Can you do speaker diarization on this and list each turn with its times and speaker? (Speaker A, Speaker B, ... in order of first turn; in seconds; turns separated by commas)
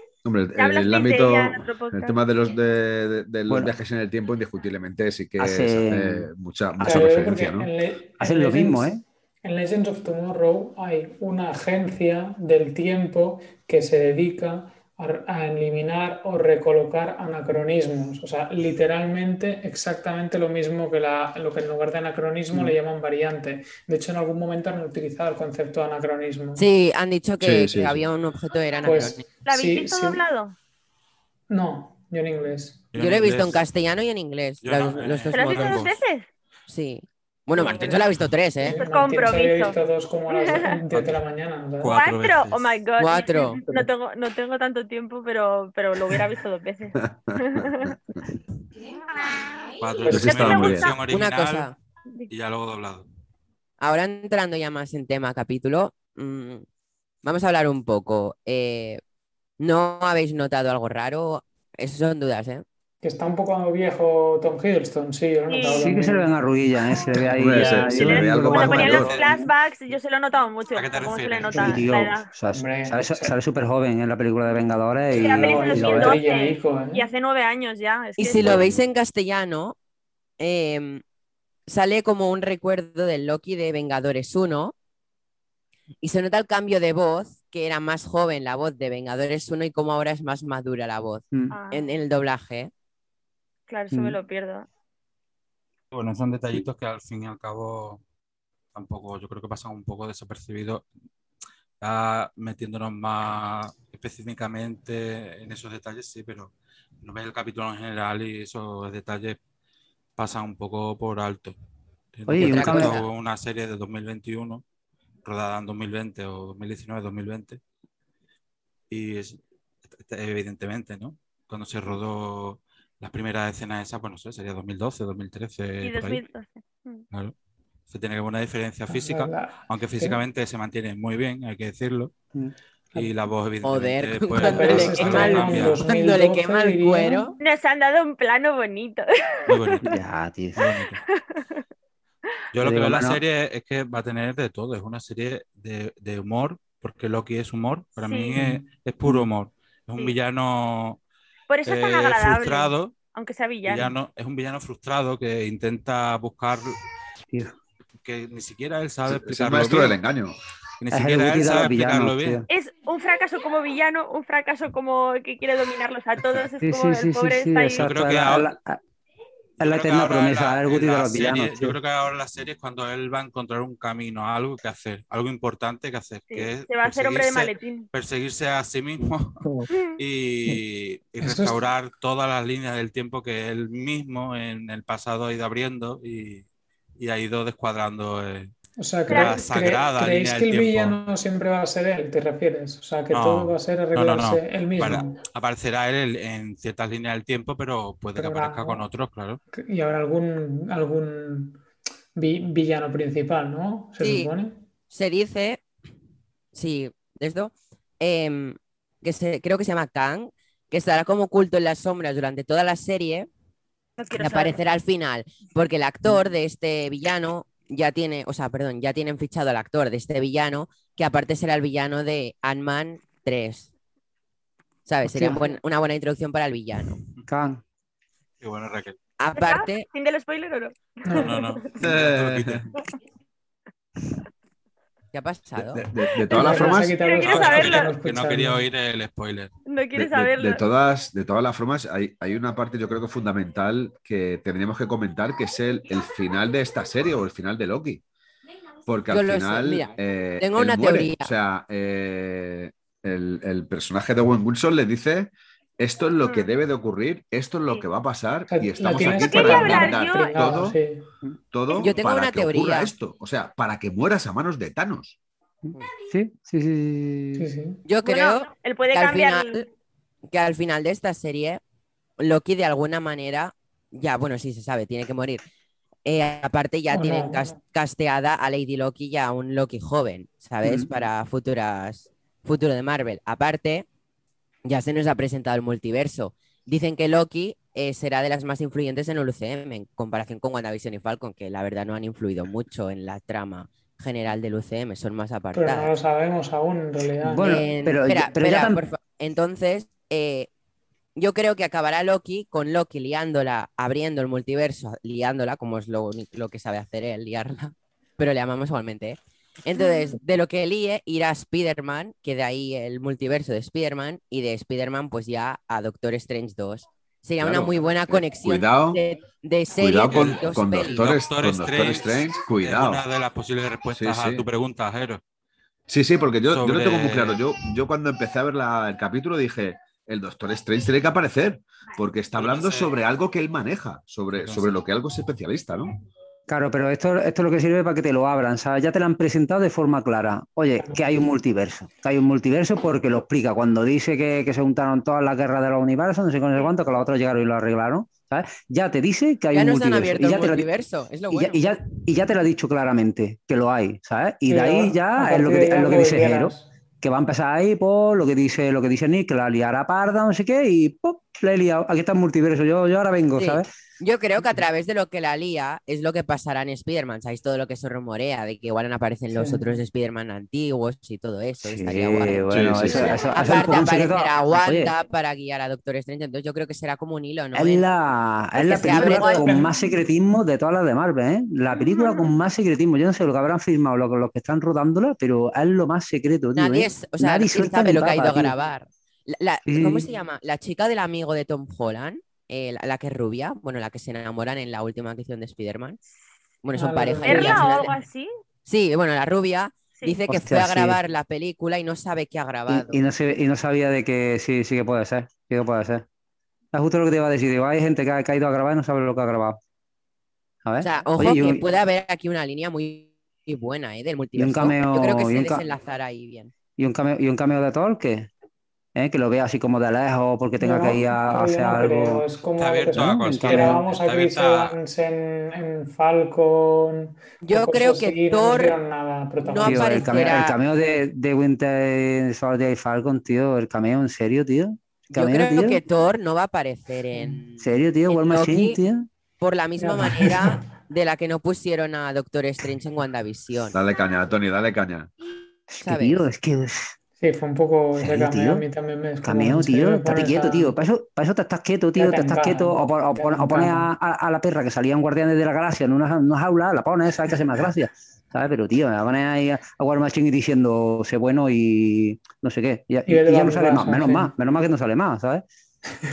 Speaker A: 0.2-7.7, Speaker B: 0.6-2.2, Speaker C: 3.5-3.7, Speaker C: 5.4-6.3, Speaker D: 6.8-26.6, Speaker C: 8.2-9.0, Speaker E: 26.6-29.2, Speaker A: 27.4-28.0, Speaker D: 28.8-30.2, Speaker B: 29.4-30.6, Speaker D: 31.5-32.9, Speaker F: 32.9-33.6, Speaker E: 33.0-35.9, Speaker F: 34.6-36.0, Speaker B: 35.3-36.3, Speaker E: 36.7-38.8, Speaker F: 37.5-38.2, Speaker D: 38.6-42.0, Speaker B: 38.6-40.8, Speaker F: 40.9-41.2, Speaker F: 41.8-42.7, Speaker B: 41.8-47.9, Speaker E: 43.0-43.6, Speaker A: 47.0-48.2, Speaker B: 49.2-51.0, Speaker F: 49.8-51.7, Speaker D: 50.0-50.4, Speaker A: 50.1-50.9, Speaker E: 51.1-51.7, Speaker F: 52.3-53.0, Speaker E: 53.8-56.6, Speaker E: 57.2-59.0, Speaker E: 59.6-62.6, Speaker D: 63.0-66.3, Speaker B: 65.5-66.0, Speaker C: 65.7-69.4, Speaker D: 67.0-68.2, Speaker A: 67.3-69.1, Speaker B: 67.7-72.3, Speaker F: 68.9-69.2, Speaker F: 70.7-72.0, Speaker C: 71.5-76.2, Speaker D: 72.5-73.3, Speaker B: 75.1-78.6, Speaker D: 75.1-77.0, Speaker E: 78.2-79.8, Speaker A: 78.4-78.8, Speaker E: 80.4-81.0, Speaker E: 81.7-84.7, Speaker E: 86.0-92.7, Speaker B: 91.5-91.8, Speaker B: 93.7-94.7, Speaker C: 93.9-94.2, Speaker F: 95.9-98.0, Speaker F: 98.7-100.8, Speaker F: 101.8-109.4, Speaker F: 110.2-111.6, Speaker F: 112.1-114.6, Speaker C: 112.3-113.0, Speaker E: 112.4-113.1, Speaker F: 115.2-117.6, Speaker F: 118.9-119.4, Speaker F: 119.9-126.2, Speaker B: 125.8-127.0, Speaker F: 127.9-132.1, Speaker D: 128.9-130.2, Speaker F: 132.9-135.8, Speaker E: 133.6-137.3, Speaker D: 134.3-137.3, Speaker B: 137.4-139.9, Speaker F: 139.5-140.0, Speaker C: 139.8-140.7, Speaker F: 140.6-141.0, Speaker B: 141.1-141.6, Speaker F: 142.5-151.0, Speaker C: 142.6-143.2, Speaker B: 148.0-148.3, Speaker C: 148.3-149.2, Speaker B: 151.5-153.9, Speaker F: 151.7-153.0, Speaker F: 153.7-156.8, Speaker F: 158.0-160.0, Speaker A: 159.1-160.3, Speaker F: 160.8-162.4, Speaker C: 160.9-162.4, Speaker B: 162.5-167.9, Speaker C: 166.6-168.8, Speaker F: 167.8-168.5, Speaker C: 169.6-171.8, Speaker F: 169.6-186.4, Speaker B: 176.3-177.9, Speaker B: 179.7-180.0, Speaker D: 181.2-181.7, Speaker F: 187.0-188.5, Speaker D: 188.8-195.2, Speaker B: 189.1-189.5, Speaker F: 189.1-190.9, Speaker F: 193.1-199.4, Speaker D: 198.1-198.9, Speaker D: 199.5-201.6, Speaker D: 202.2-204.6, Speaker E: 204.0-204.3, Speaker E: 204.9-205.6, Speaker E: 206.5-213.3, Speaker B: 214.0-214.5, Speaker E: 214.2-223.7, Speaker E: 224.8-227.0, Speaker C: 225.1-225.4, Speaker C: 227.3-227.6, Speaker F: 228.4-228.9, Speaker E: 229.2-229.8, Speaker B: 229.3-231.7, Speaker D: 231.0-231.6, Speaker F: 231.2-232.7, Speaker A: 231.8-232.7, Speaker E: 235.1-235.8, Speaker A: 235.6-237.0, Speaker B: 236.2-237.9, Speaker D: 236.3-238.7, Speaker F: 237.2-239.5, Speaker B: 239.6-240.6, Speaker A: 239.9-248.0, Speaker A: 248.8-260.8, Speaker E: 249.1-251.3, Speaker B: 256.2-256.5, Speaker D: 258.5-261.1, Speaker B: 259.0-260.4, Speaker A: 261.5-265.1, Speaker E: 261.7-262.9, Speaker C: 265.7-267.5, Speaker D: 267.4-267.8, Speaker E: 267.9-269.7, Speaker B: 268.0-269.6, Speaker E: 270.3-271.6, Speaker E: 272.2-275.4, Speaker E: 276.0-283.9, Speaker D: 276.9-277.6, Speaker C: 280.6-280.9, Speaker E: 284.6-295.9, Speaker D: 295.5-297.6, Speaker C: 297.2-298.8, Speaker E: 297.4-300.5, Speaker E: 301.1-321.0, Speaker A: 317.4-319.0, Speaker A: 319.8-323.0, Speaker F: 320.1-325.2, Speaker A: 323.9-324.4, Speaker A: 325.9-335.9, Speaker F: 326.5-327.4, Speaker F: 332.3-332.9, Speaker F: 334.4-334.8, Speaker C: 336.5-350.7, Speaker D: 340.8-341.1, Speaker E: 349.5-351.6, Speaker C: 351.3-363.7, Speaker D: 354.5-356.7, Speaker E: 363.4-377.9, Speaker D: 369.3-369.8, Speaker C: 371.6-374.9, Speaker A: 372.5-373.1, Speaker C: 377.5-388.5, Speaker E: 378.6-379.5, Speaker D: 378.7-379.8, Speaker B: 381.7-382.3, Speaker E: 386.5-396.0, Speaker C: 389.6-390.0, Speaker E: 396.6-397.8, Speaker D: 396.7-397.9, Speaker B: 397.2-398.3, Speaker E: 398.7-403.0, Speaker C: 400.3-401.0, Speaker C: 402.7-406.0, Speaker C: 406.7-409.6, Speaker C: 410.6-411.6, Speaker E: 410.8-416.5, Speaker C: 414.3-415.6, Speaker C: 416.8-418.3, Speaker C: 418.9-422.2, Speaker D: 420.6-430.4, Speaker F: 422.6-424.7, Speaker C: 422.9-423.8, Speaker E: 427.4-428.8, Speaker E: 429.4-430.6, Speaker C: 429.6-435.8, Speaker E: 435.1-438.8, Speaker C: 437.6-439.1, Speaker E: 439.4-443.8, Speaker D: 439.8-440.7, Speaker A: 443.7-445.1, Speaker C: 445.7-446.9, Speaker E: 445.8-446.2, Speaker D: 447.2-450.8, Speaker C: 447.9-448.6, Speaker C: 449.2-465.4, Speaker D: 451.9-453.9, Speaker D: 463.1-464.3